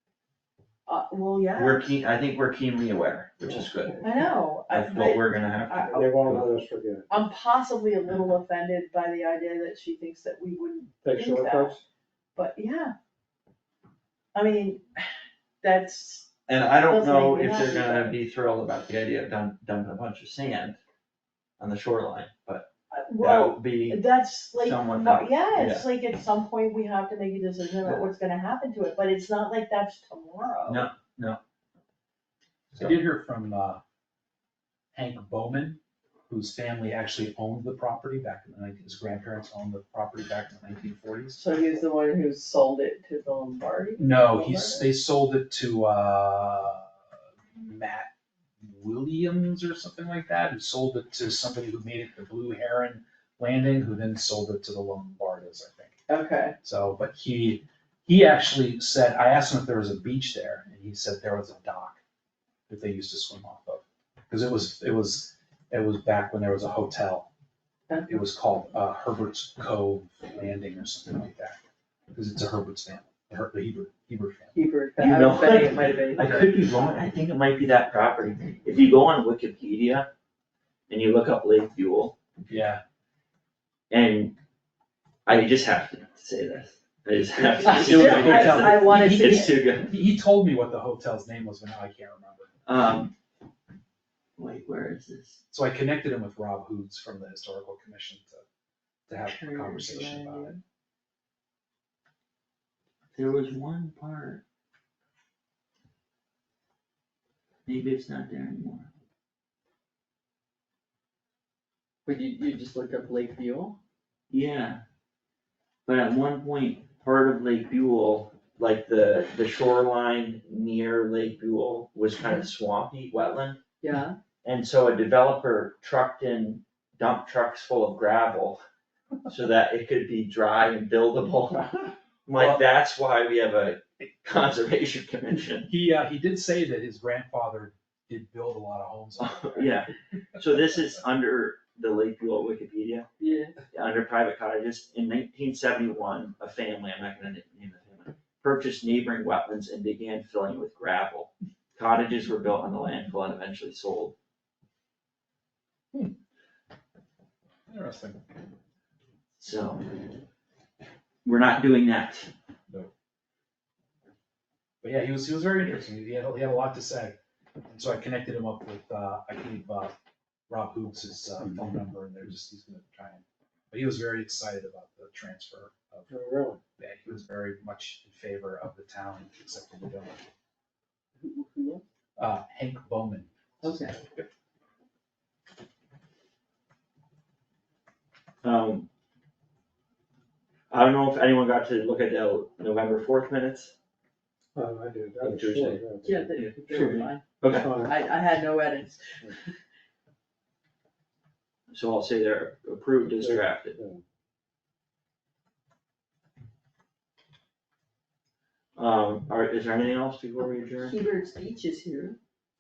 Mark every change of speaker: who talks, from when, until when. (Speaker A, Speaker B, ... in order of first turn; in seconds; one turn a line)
Speaker A: 0.9-1.9
Speaker B: 1.6-4.1
Speaker A: 4.0-6.1
Speaker B: 4.7-6.5
Speaker C: 5.9-7.1
Speaker A: 7.1-11.8
Speaker C: 11.0-11.8
Speaker A: 12.4-12.9
Speaker A: 14.3-15.1
Speaker A: 15.6-16.3
Speaker B: 16.5-20.8
Speaker A: 16.9-18.2
Speaker B: 21.6-25.9
Speaker A: 22.9-30.9
Speaker B: 30.7-31.4
Speaker B: 32.7-33.0
Speaker D: 32.8-33.8
Speaker D: 34.9-41.4
Speaker A: 41.4-44.9
Speaker D: 44.0-46.9
Speaker D: 47.6-56.0
Speaker A: 56.1-56.6
Speaker D: 56.6-62.0
Speaker D: 62.7-67.3
Speaker A: 67.9-68.2
Speaker D: 68.1-71.6
Speaker D: 72.1-74.6
Speaker A: 74.5-76.5
Speaker B: 75.0-80.1
Speaker B: 80.9-82.6
Speaker D: 82.5-82.8
Speaker B: 83.9-84.4
Speaker B: 85.3-89.9
Speaker A: 87.6-89.5
Speaker D: 87.7-92.5
Speaker B: 92.7-93.2
Speaker B: 94.4-95.4
Speaker A: 94.5-94.8
Speaker D: 95.5-98.4
Speaker D: 99.1-100.5
Speaker A: 99.2-100.6
Speaker B: 103.1-104.4
Speaker B: 107.7-108.9
Speaker A: 112.1-113.8
Speaker B: 114.3-114.8
Speaker B: 115.9-123.6
Speaker A: 123.8-124.2
Speaker B: 124.4-128.6
Speaker B: 129.3-135.7
Speaker D: 132.4-132.6
Speaker D: 135.7-139.5
Speaker B: 139.2-143.1
Speaker A: 143.2-143.5
Speaker B: 143.7-154.2
Speaker D: 157.7-158.2
Speaker B: 159.4-159.9
Speaker B: 161.2-162.3
Speaker D: 164.8-167.2
Speaker D: 167.7-169.9
Speaker D: 170.5-176.1
Speaker C: 176.1-176.6
Speaker D: 176.8-180.2
Speaker C: 181.2-181.8
Speaker D: 182.2-184.3
Speaker A: 183.6-183.9
Speaker B: 188.4-188.9
Speaker B: 190.7-193.7
Speaker C: 194.6-196.4
Speaker B: 195.2-195.8
Speaker A: 196.0-199.5
Speaker B: 196.3-197.7
Speaker C: 197.5-197.9
Speaker B: 201.7-203.8
Speaker C: 203.1-204.0
Speaker B: 208.8-210.9
Speaker A: 210.8-212.2